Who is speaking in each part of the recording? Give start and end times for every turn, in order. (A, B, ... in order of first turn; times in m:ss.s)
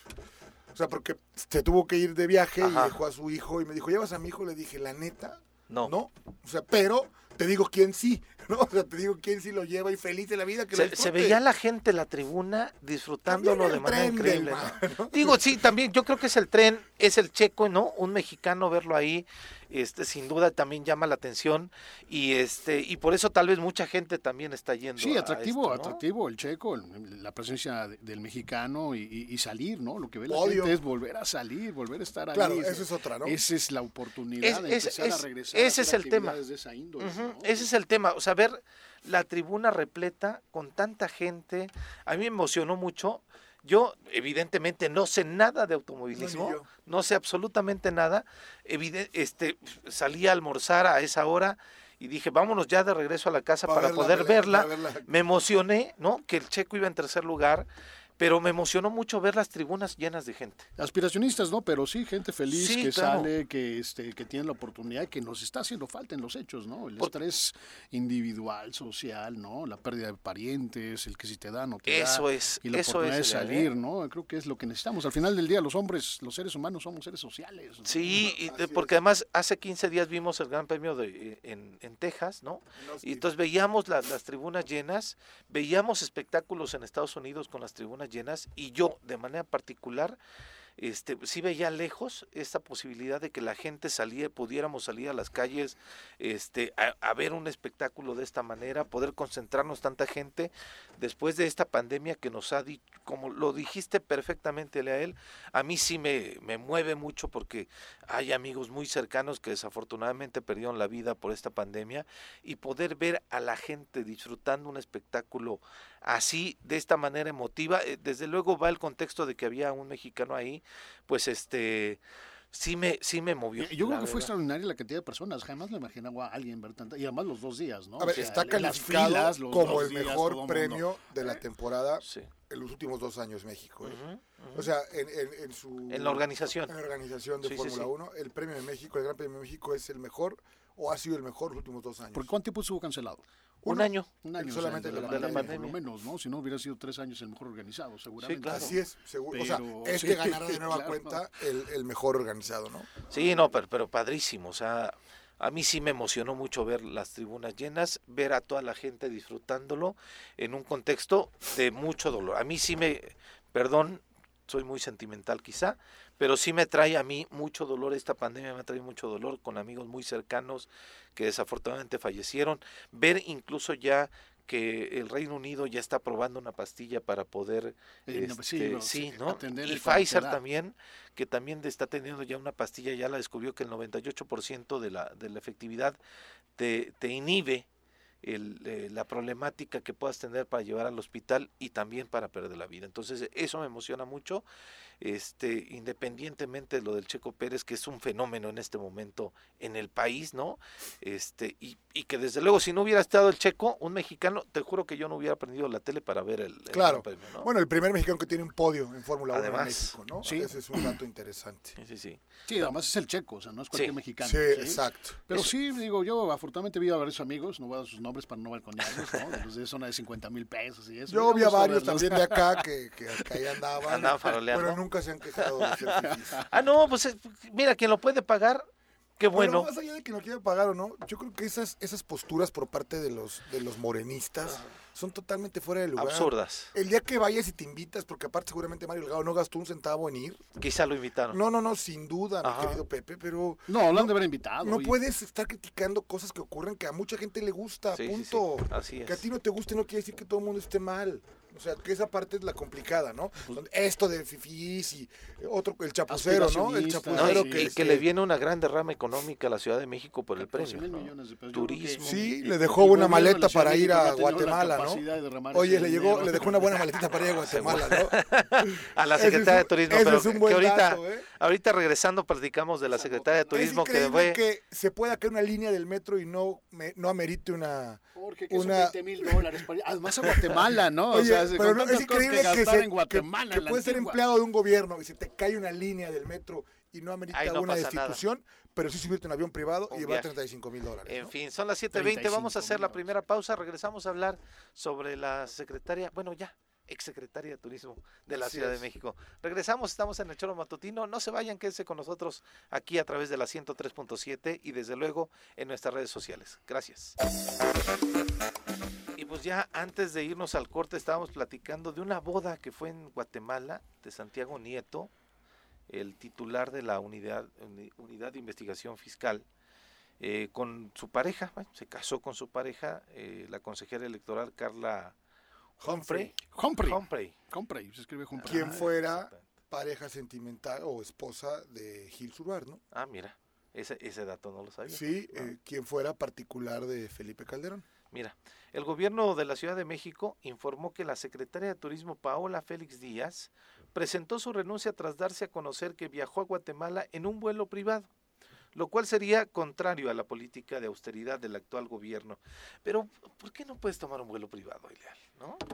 0:00.7-0:11.4 A
0:02.6-0:03.0 B
0:10.7-0:26.0 B
0:13.3-0:15.4 A
0:25.0-0:37.7 C
0:30.3-0:30.8 A
0:32.3-0:33.4 A
0:34.4-0:36.4 B
0:37.0-0:57.7 B
0:46.1-0:46.7 A
0:53.7-0:55.1 A
0:58.2-1:00.7 B
1:00.8-1:17.9 C
1:02.5-1:03.3 B
1:11.9-1:13.7 B
1:17.8-1:30.2 B
1:18.1-1:18.9 A
1:22.8-1:23.2 A
1:30.8-2:02.0 B
2:02.5-2:04.3 B
2:03.6-2:10.9 C
2:08.0-2:14.0 A
2:08.1-2:08.6 B
2:12.0-2:12.3 B
2:13.8-2:14.7 B
2:14.5-2:22.3 A
2:15.9-2:16.7 B
2:17.4-2:17.9 B
2:22.1-2:23.2 C
2:23.6-2:24.1 B
2:23.6-2:25.6 A
2:24.2-2:28.8 C
2:24.8-2:25.8 B
2:28.2-2:28.7 B
2:28.4-2:32.9 A
2:29.3-2:31.2 C
2:33.1-3:06.0 B
2:58.1-3:00.4 C
3:06.6-3:07.7 B
3:08.2-3:14.4 B
3:15.0-3:27.5 B
3:26.7-3:31.8 A
3:29.3-3:30.0 B
3:30.2-3:30.5 C
3:31.8-3:32.2 B
3:32.5-3:42.6 C
3:34.2-3:35.3 A
3:41.1-3:46.5 A
3:43.9-3:44.8 B
3:45.4-3:45.9 B
3:46.5-3:48.7 B
3:49.2-3:49.7 B
3:49.3-4:00.4 A
3:56.0-3:56.7 B
4:00.6-4:01.4 B
4:01.3-4:18.0 A
4:02.4-4:02.8 B
4:03.7-4:05.0 C
4:07.9-4:09.2 B
4:16.1-4:18.0 C
4:17.2-4:22.2 B
4:20.4-4:26.8 C
4:22.0-4:31.3 A
4:27.4-4:34.4 B
4:32.9-4:33.7 C
4:33.5-4:39.5 A
4:38.2-4:44.2 C
4:41.1-4:51.3 A
4:47.3-4:48.2 B
4:49.9-4:50.3 B
4:51.0-5:07.2 B
4:51.9-4:53.2 C
4:58.3-4:58.8 A
5:09.2-5:15.1 B
5:15.9-5:19.4 B
5:20.2-5:25.2 B
5:25.8-5:27.3 B
5:25.8-5:26.3 A
5:26.5-5:28.9 C
5:28.4-5:29.5 B
5:28.5-5:32.8 A
5:32.9-5:35.5 B
5:34.9-5:37.8 A
5:38.1-5:48.1 B
5:48.8-5:55.6 B